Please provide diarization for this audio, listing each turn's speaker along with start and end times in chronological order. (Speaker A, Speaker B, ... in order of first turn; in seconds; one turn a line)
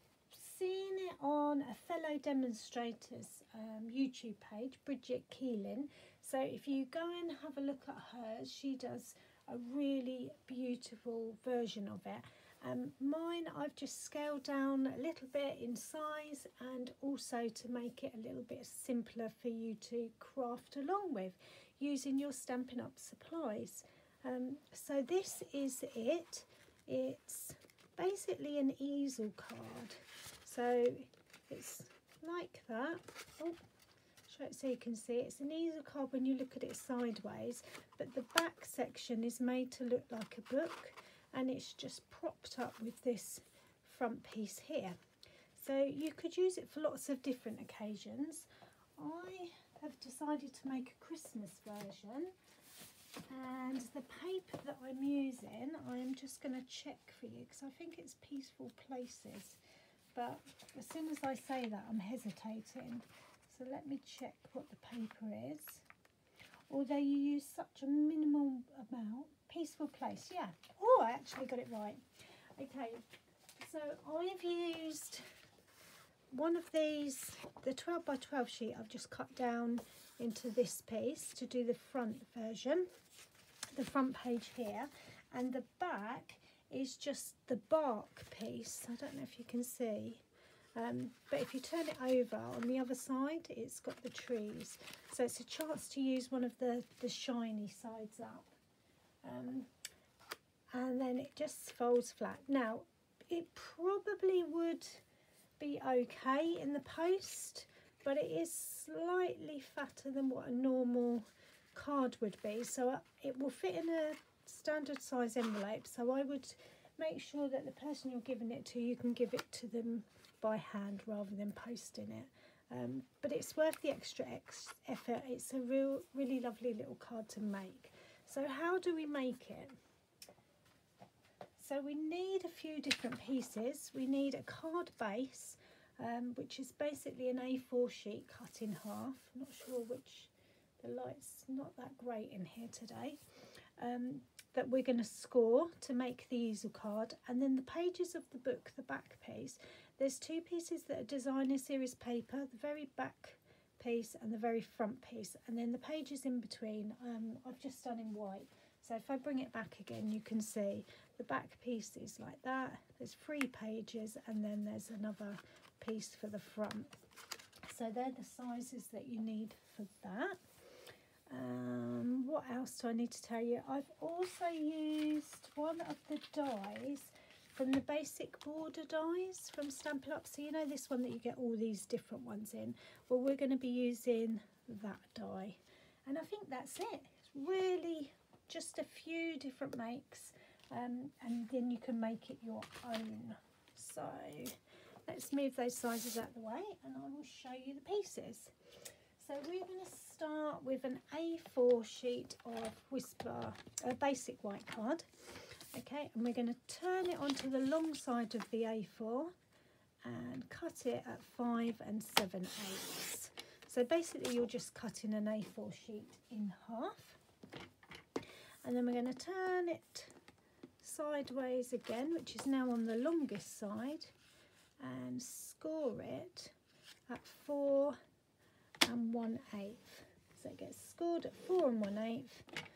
Speaker A: 0.3-33.6
Speaker A: 34.3-45.0
Speaker A: 45.5-52.3
Speaker A: 53.3-59.6
Speaker A: 60.1-65.8
Speaker A: 66.7-72.0
Speaker A: 72.6-73.0
Speaker A: 73.6-75.2
Speaker A: 76.3-82.9
Speaker A: 83.7-90.2
Speaker A: 90.8-98.5
Speaker A: 99.2-99.7
Speaker A: 100.7-105.0
Speaker A: 105.6-129.8
Speaker A: 131.6-143.2
Speaker A: 143.8-166.9
Speaker A: 167.7-170.4
Speaker A: 171.3-198.5
Speaker A: 199.2-205.1
Speaker A: 205.7-209.3
Speaker A: 210.0-217.2
Speaker A: 218.6-220.1
Speaker A: 220.8-224.1
Speaker A: 224.8-226.6
Speaker A: 227.1-228.0
Speaker A: 228.8-232.5